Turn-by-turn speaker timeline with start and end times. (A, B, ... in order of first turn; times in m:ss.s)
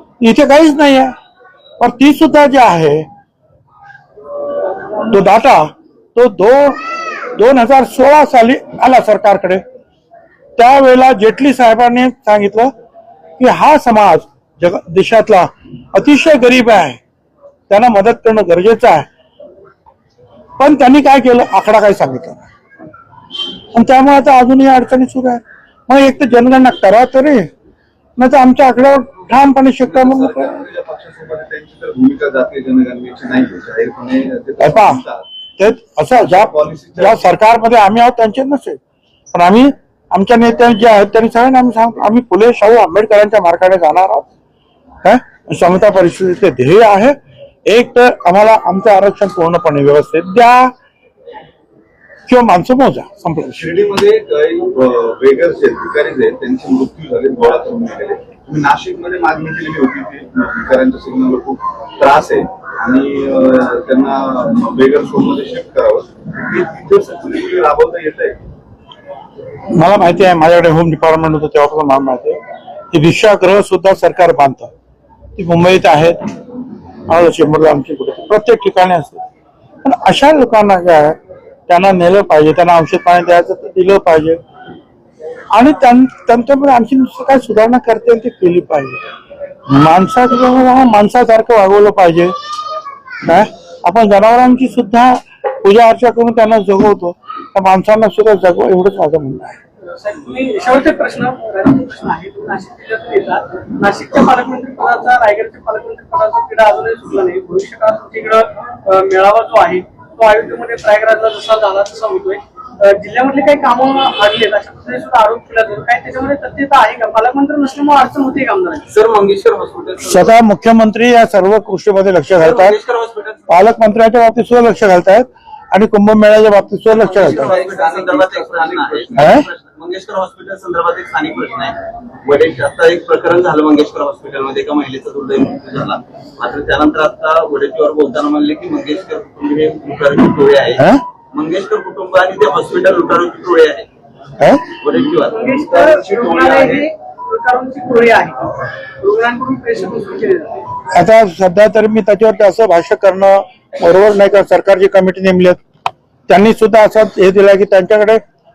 0:00.2-0:01.1 A
0:01.8-0:03.0 A
0:05.1-0:06.8 A
0:07.4-0:09.6 A
0:10.6-0:12.7 A
0:13.4-0:17.0 A
0:17.7-0:19.1 A
0:20.6-0:22.5 A
0:23.7-0:27.5 A
0:28.2-0:30.6 A
0:29.8-0:35.2 B
0:34.6-0:35.0 A
0:35.6-0:38.8 A
0:36.1-0:37.3 B
0:39.3-0:44.2 A
0:45.0-0:50.7 A
0:52.3-0:53.8 A
0:53.5-1:08.4 B
1:09.7-1:12.4 A
1:12.9-1:14.7 A
1:15.4-1:16.2 A
1:17.1-1:19.2 A
1:19.8-1:21.2 A
1:21.7-1:24.4 A
1:25.5-1:29.0 A
1:29.7-1:32.3 A
1:33.2-1:39.6 A
1:40.0-1:58.9 C
1:58.9-1:59.7 D
2:00.0-2:02.8 A
2:02.4-2:03.2 D
2:03.5-2:07.5 A
2:07.1-2:09.4 B
2:07.2-2:23.9 D
2:09.2-2:09.5 A
2:20.8-2:21.0 A
2:24.4-2:24.7 A
2:24.8-2:26.8 D
2:25.3-2:30.6 C
2:26.1-2:26.6 B
2:30.9-2:35.6 A
2:36.3-2:38.2 A